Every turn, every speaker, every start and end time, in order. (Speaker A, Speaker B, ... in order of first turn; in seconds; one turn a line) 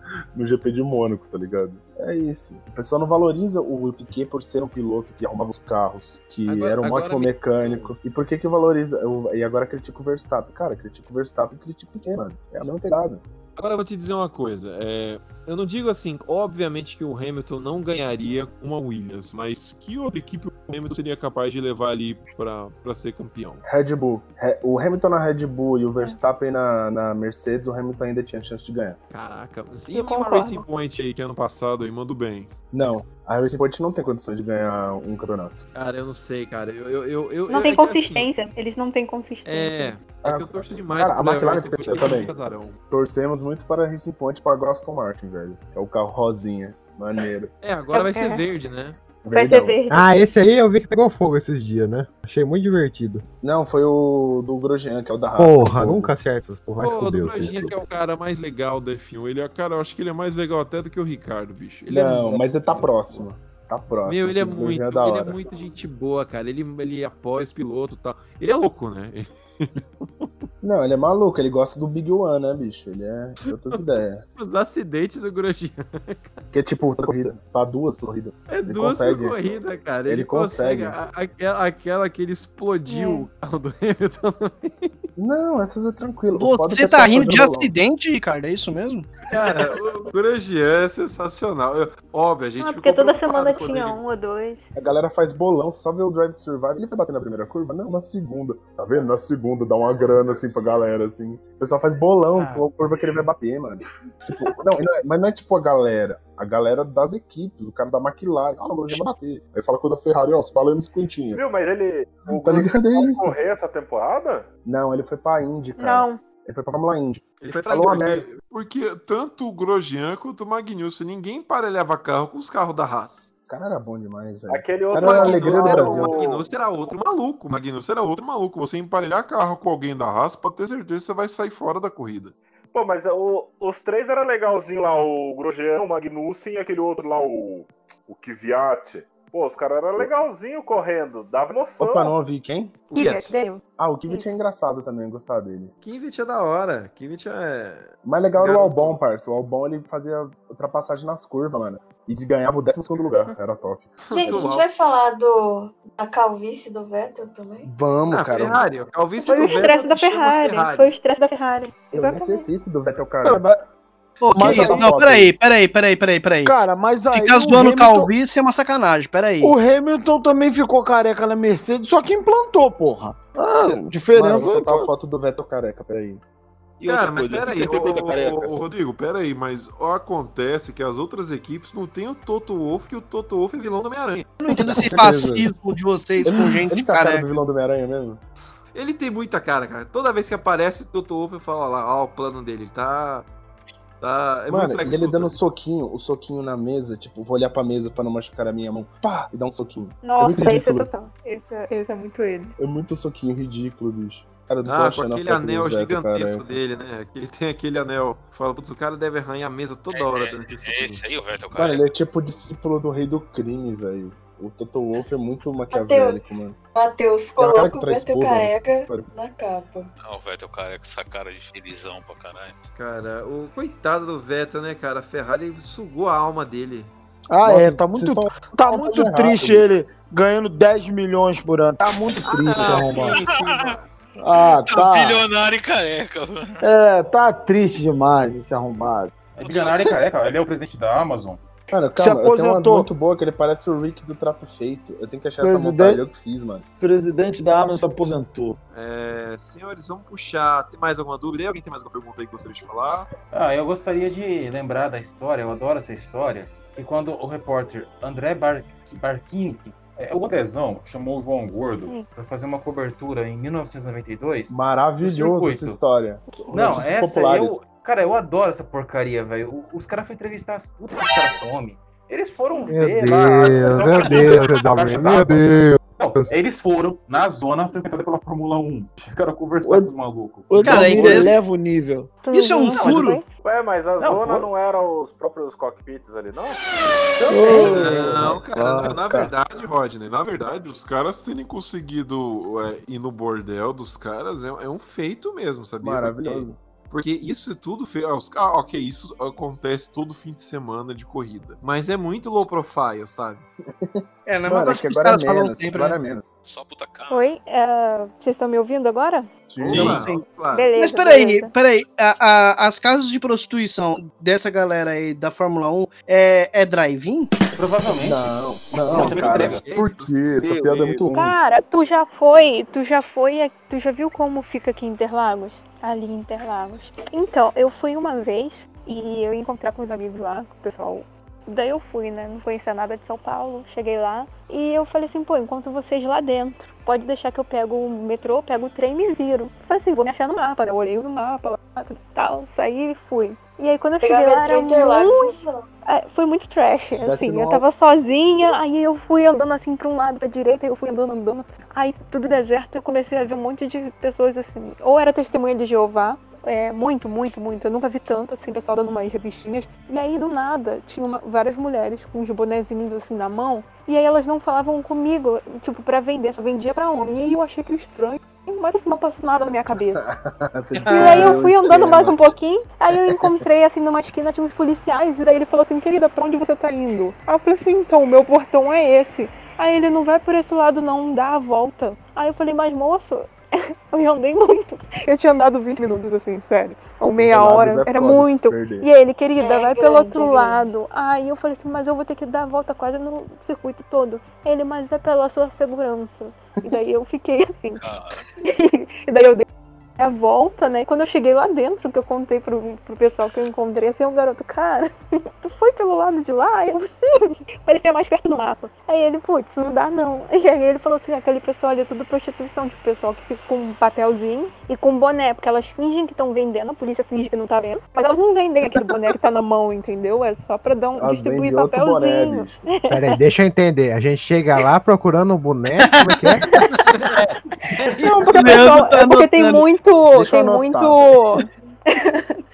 Speaker A: 0.3-13.2
Speaker B: 6.5-7.9
Speaker B: 13.6-23.6
Speaker A: 23.6-29.0
Speaker B: 29.1-32.5
Speaker C: 29.9-30.7
Speaker A: 32.7-35.6
Speaker B: 35.8-38.3
Speaker C: 37.5-40.0
Speaker B: 39.5-42.8
Speaker A: 40.2-42.3
Speaker A: 42.9-47.5
Speaker B: 47.6-49.0
Speaker C: 47.9-48.4
Speaker A: 49.2-49.8
Speaker C: 49.3-50.1
Speaker D: 49.9-53.2
Speaker A: 53.4-56.1
Speaker D: 55.4-57.8
Speaker B: 56.8-63.2
Speaker A: 61.9-65.4
Speaker B: 64.0-70.3
Speaker A: 70.6-74.2
Speaker B: 73.5-76.4
Speaker A: 76.5-79.4
Speaker B: 78.5-84.9
Speaker A: 80.1-81.0
Speaker C: 82.9-83.3
Speaker A: 85.2-87.7
Speaker E: 86.4-89.1
Speaker B: 89.3-94.0
Speaker C: 92.6-94.7
Speaker A: 94.8-111.4
Speaker F: 102.3-102.7
Speaker G: 111.3-114.5
Speaker A: 112.3-113.4
Speaker A: 114.7-118.3
Speaker C: 115.8-116.2
Speaker B: 117.4-123.3
Speaker A: 123.5-126.2
Speaker G: 124.5-126.5
Speaker B: 124.9-132.3
Speaker G: 132.7-142.1
Speaker A: 141.8-142.8
Speaker B: 142.9-143.3
Speaker C: 142.9-144.3
Speaker A: 143.8-145.7
Speaker B: 145.8-149.0
Speaker A: 148.0-154.4
Speaker B: 154.0-154.7
Speaker H: 154.1-157.7
Speaker A: 157.6-158.6
Speaker B: 158.1-160.9
Speaker C: 159.2-162.5
Speaker A: 161.9-163.4
Speaker I: 163.2-163.6
Speaker E: 164.2-166.6
Speaker I: 164.3-164.9
Speaker A: 164.4-165.3
Speaker I: 166.4-168.1
Speaker E: 167.1-169.6
Speaker I: 169.4-174.9
Speaker A: 174.1-176.2
Speaker J: 176.8-178.5
Speaker B: 176.9-184.3
Speaker E: 184.4-187.3
Speaker A: 184.5-185.6
Speaker A: 186.2-188.2
Speaker B: 188.7-193.3
Speaker B: 194.0-195.4
Speaker A: 194.5-200.9
Speaker C: 200.0-202.6
Speaker A: 202.6-206.5
Speaker B: 204.7-211.0
Speaker K: 209.9-211.8
Speaker A: 211.6-216.6
Speaker H: 215.7-216.2
Speaker H: 216.7-219.9
Speaker A: 217.4-219.1
Speaker K: 220.1-222.6
Speaker B: 222.8-226.9
Speaker I: 227.3-233.1
Speaker A: 227.4-229.7
Speaker A: 232.2-233.1
Speaker B: 232.3-233.8
Speaker K: 232.9-233.8
Speaker I: 234.2-235.3
Speaker K: 234.3-236.6
Speaker I: 236.6-239.1
Speaker F: 239.4-241.4
Speaker K: 239.4-240.0
Speaker A: 241.7-246.7
Speaker I: 242.0-242.9
Speaker I: 245.4-246.0
Speaker I: 246.8-248.6
Speaker B: 248.7-253.1
Speaker F: 253.3-265.8
Speaker A: 264.5-267.6
Speaker C: 266.3-266.6
Speaker F: 266.5-275.4
Speaker D: 272.7-276.3
Speaker F: 276.0-281.3
Speaker I: 279.6-279.9
Speaker I: 280.5-282.1
Speaker E: 280.6-281.3
Speaker C: 282.2-283.3
Speaker E: 282.3-283.2
Speaker G: 283.4-286.6
Speaker F: 284.0-284.5
Speaker F: 287.2-287.9
Speaker I: 287.3-288.3
Speaker A: 287.5-289.3
Speaker B: 287.6-303.4
Speaker A: 295.8-296.6
Speaker A: 303.8-306.3
Speaker E: 304.3-306.0
Speaker K: 306.5-307.3
Speaker C: 307.1-309.3
Speaker A: 309.5-310.1
Speaker B: 309.6-310.7
Speaker E: 309.7-310.2
Speaker C: 310.5-311.5
Speaker E: 310.8-317.3
Speaker F: 317.6-318.3
Speaker A: 317.8-321.3
Speaker F: 318.9-319.6
Speaker B: 318.9-321.1
Speaker J: 320.4-320.9
Speaker C: 321.1-370.0
Speaker H: 344.0-345.7
Speaker A: 347.0-347.6
Speaker A: 369.9-372.4
Speaker E: 370.8-371.3
Speaker C: 370.8-397.8
Speaker A: 372.9-373.4
Speaker A: 387.2-388.9
Speaker H: 389.4-390.7
Speaker K: 397.8-398.2
Speaker C: 398.4-399.5
Speaker C: 400.0-423.2
Speaker A: 421.0-422.7
Speaker D: 422.9-426.6
Speaker E: 425.9-426.1
Speaker E: 428.0-429.6
Speaker C: 428.1-432.4
Speaker A: 430.1-431.4